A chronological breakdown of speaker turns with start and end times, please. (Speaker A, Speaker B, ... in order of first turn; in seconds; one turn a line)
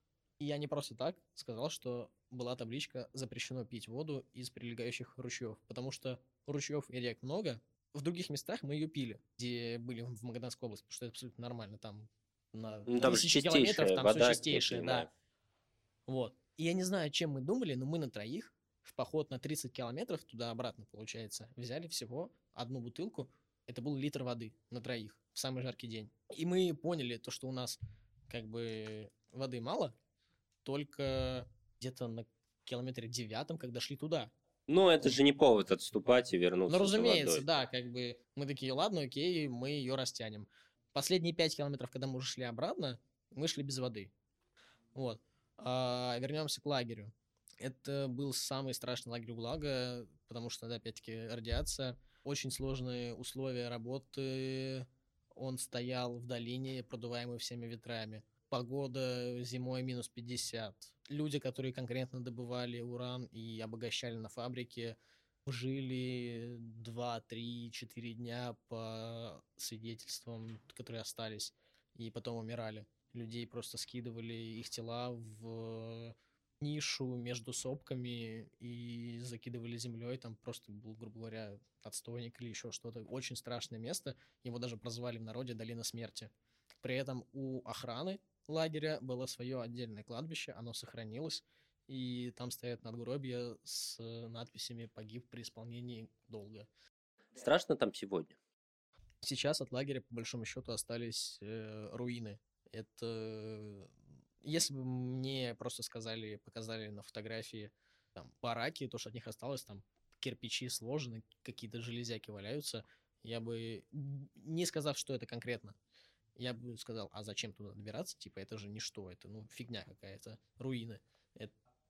Speaker A: 0.4-15.1
Speaker B: 12.9-15.1
Speaker A: 16.1-29.9
Speaker A: 30.6-34.3
Speaker B: 34.7-37.5
Speaker A: 36.7-44.1
Speaker A: 44.9-86.3
Speaker A: 86.8-96.7
Speaker B: 97.3-98.4
Speaker A: 99.2-103.9
Speaker A: 104.4-115.8
Speaker A: 116.3-121.5